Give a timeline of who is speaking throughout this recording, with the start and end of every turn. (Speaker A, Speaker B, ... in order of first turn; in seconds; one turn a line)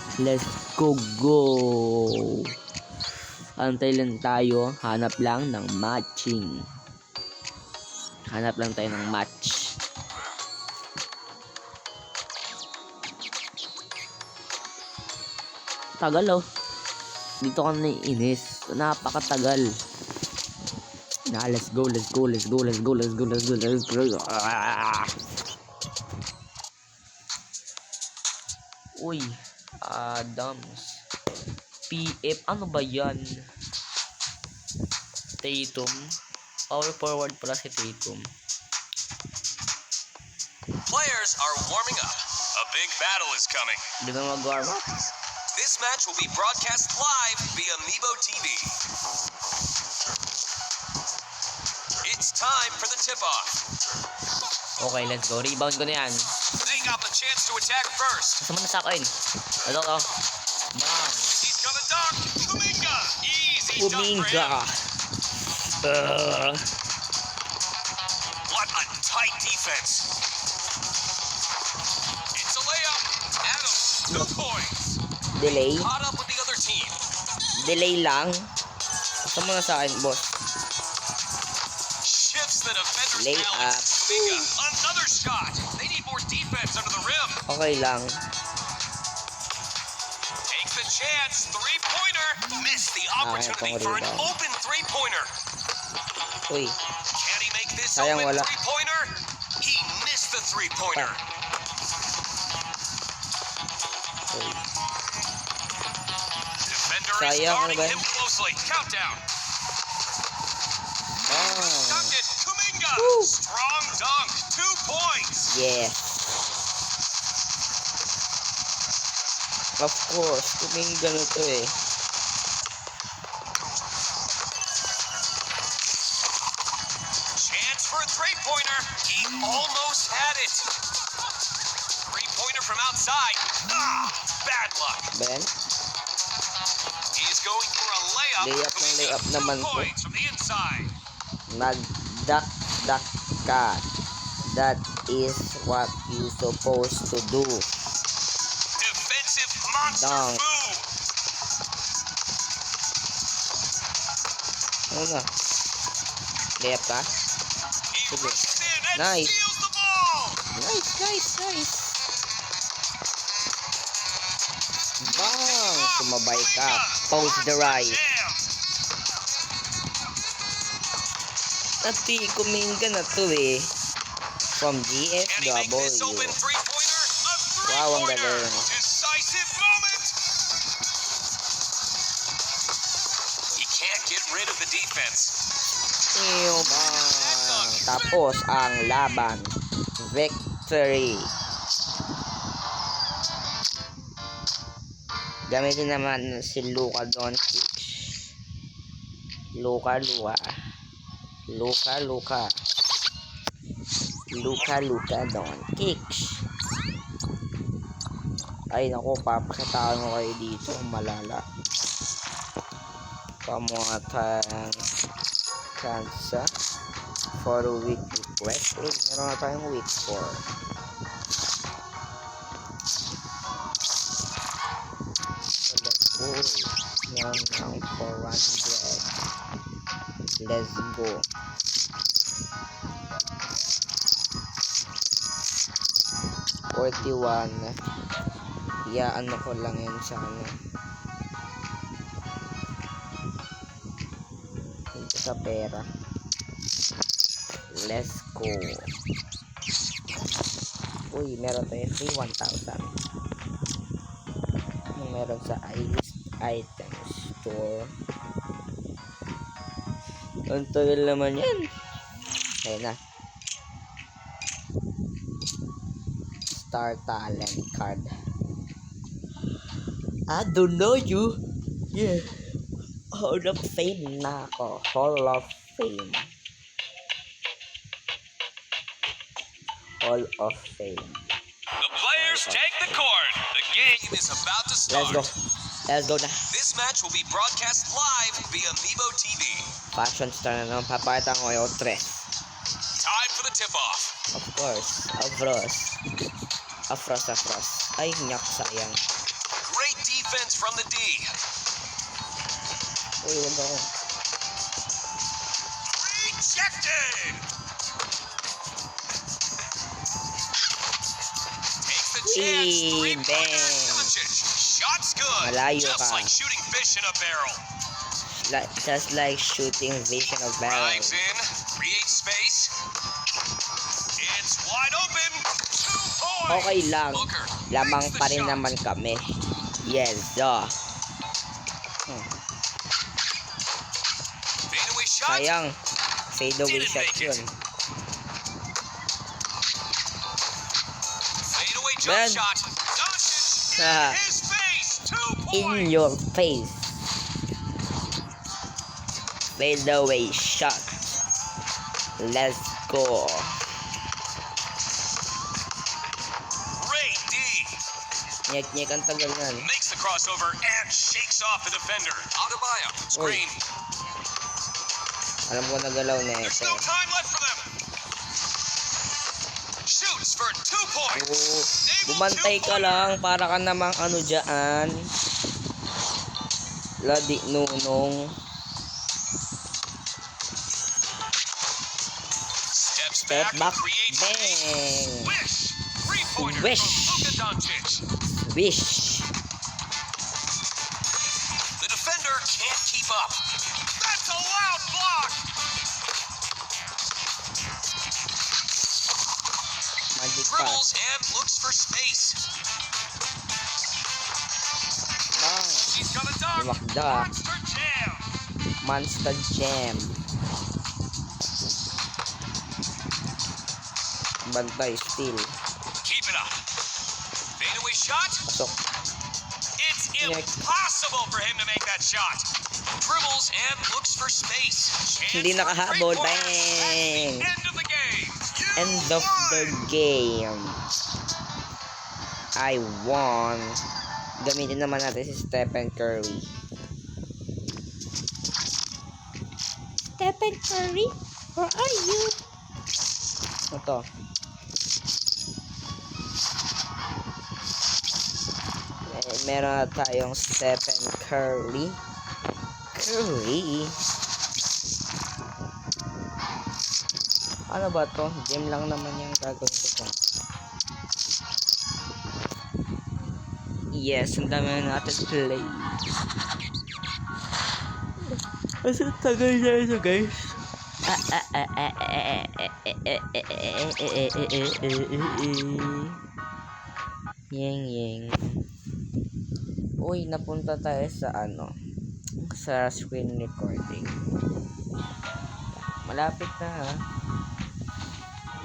Speaker A: 0.2-2.5
Speaker A: 3.6-6.7
Speaker A: 8.3-9.8
Speaker A: 16.0-16.4
Speaker A: 17.4-19.7
Speaker A: 21.3-25.1
Speaker A: 28.9-31.0
Speaker A: 31.9-33.5
Speaker A: 35.4-36.1
Speaker A: 36.7-38.3
Speaker B: 40.9-43.8
Speaker A: 44.0-45.0
Speaker B: 45.5-48.7
Speaker B: 52.0-53.5
Speaker A: 54.8-56.3
Speaker B: 56.6-58.4
Speaker A: 58.4-59.1
Speaker A: 59.6-60.1
Speaker A: 60.7-61.4
Speaker B: 61.3-64.6
Speaker A: 63.7-64.8
Speaker A: 65.8-66.6
Speaker B: 68.5-70.1
Speaker B: 72.3-75.0
Speaker A: 75.3-75.9
Speaker B: 75.6-77.0
Speaker A: 77.6-78.5
Speaker A: 79.2-80.3
Speaker B: 82.0-87.4
Speaker A: 83.1-84.5
Speaker A: 87.5-88.2
Speaker B: 90.5-95.3
Speaker A: 93.2-94.3
Speaker A: 96.5-96.8
Speaker B: 97.1-101.2
Speaker A: 97.9-98.5
Speaker A: 104.3-104.6
Speaker B: 106.7-109.2
Speaker A: 107.1-108.0
Speaker A: 111.3-112.1
Speaker B: 111.3-115.5
Speaker A: 113.0-113.3
Speaker A: 115.5-116.3
Speaker A: 119.8-121.7
Speaker B: 127.3-130.7
Speaker B: 132.1-135.1
Speaker A: 135.1-135.5
Speaker B: 137.1-140.9
Speaker A: 138.4-139.9
Speaker A: 141.5-143.8
Speaker A: 144.5-147.7
Speaker B: 148.8-150.9
Speaker A: 149.8-150.4
Speaker A: 154.9-155.3
Speaker A: 156.6-157.1
Speaker B: 157.9-160.4
Speaker A: 158.1-158.4
Speaker A: 158.9-159.3
Speaker A: 160.5-161.9
Speaker A: 165.0-168.0
Speaker B: 165.2-168.5
Speaker A: 171.8-173.7
Speaker A: 174.6-176.4
Speaker B: 175.3-180.1
Speaker A: 177.7-178.7
Speaker B: 183.5-185.3
Speaker A: 186.1-191.3
Speaker B: 187.1-188.2
Speaker A: 195.5-198.3
Speaker A: 199.5-200.4
Speaker A: 201.5-202.5
Speaker A: 204.3-206.4
Speaker A: 208.7-211.4
Speaker A: 213.4-214.8
Speaker A: 215.7-216.5
Speaker A: 217.3-220.4
Speaker A: 225.7-229.1
Speaker A: 230.4-231.3
Speaker A: 236.7-237.8
Speaker A: 238.9-240.5
Speaker A: 244.9-245.9
Speaker A: 247.7-248.9
Speaker A: 251.1-252.9
Speaker A: 254.9-257.9
Speaker A: 260.5-261.7
Speaker A: 262.6-263.0
Speaker A: 266.5-268.1
Speaker A: 270.3-271.4
Speaker A: 271.9-272.4
Speaker A: 273.1-276.3
Speaker A: 280.0-281.3
Speaker B: 281.8-285.2
Speaker A: 282.1-282.6
Speaker A: 284.9-285.3
Speaker A: 285.9-286.5
Speaker B: 286.5-289.7
Speaker A: 289.9-292.3
Speaker B: 293.0-294.1
Speaker A: 294.3-295.9
Speaker A: 296.9-299.0
Speaker B: 299.6-301.3
Speaker A: 303.2-303.9
Speaker B: 305.9-307.4
Speaker B: 311.8-317.6
Speaker A: 312.2-314.1
Speaker A: 315.4-316.3
Speaker A: 318.3-321.1
Speaker B: 320.6-322.7
Speaker B: 324.2-328.6
Speaker A: 326.5-330.8
Speaker B: 334.7-335.5
Speaker A: 335.2-335.8
Speaker A: 336.3-337.5
Speaker B: 336.6-337.4
Speaker B: 341.4-345.9
Speaker A: 342.0-342.4
Speaker A: 343.7-344.2
Speaker A: 345.5-347.0
Speaker A: 349.6-350.9
Speaker A: 352.2-353.5
Speaker B: 356.7-357.7
Speaker A: 358.5-359.7
Speaker B: 359.6-363.6
Speaker A: 363.1-363.4
Speaker A: 365.5-366.9
Speaker B: 366.4-367.7
Speaker B: 369.8-371.3
Speaker A: 371.1-374.9
Speaker B: 371.8-373.1
Speaker A: 377.0-378.3
Speaker B: 382.7-388.0
Speaker A: 383.3-385.4
Speaker A: 386.3-387.3
Speaker A: 388.5-389.3
Speaker B: 391.8-393.4
Speaker B: 394.0-395.4
Speaker A: 400.1-400.8
Speaker B: 400.5-402.4
Speaker A: 405.3-405.9
Speaker B: 405.8-408.2
Speaker A: 406.6-407.3
Speaker A: 408.8-410.2
Speaker A: 414.4-415.5
Speaker B: 416.0-416.5
Speaker B: 417.6-418.4
Speaker B: 419.8-422.5
Speaker A: 420.2-420.5
Speaker B: 423.0-429.9
Speaker A: 425.3-427.5
Speaker A: 428.8-430.8
Speaker A: 432.6-433.8
Speaker A: 434.4-436.5
Speaker A: 440.2-442.4
Speaker A: 443.7-444.1
Speaker A: 449.1-452.0
Speaker A: 452.9-454.0
Speaker A: 457.7-460.1
Speaker A: 463.9-466.0
Speaker A: 468.3-476.1
Speaker A: 477.5-478.6
Speaker A: 480.0-481.7
Speaker A: 482.4-484.2
Speaker A: 485.7-487.0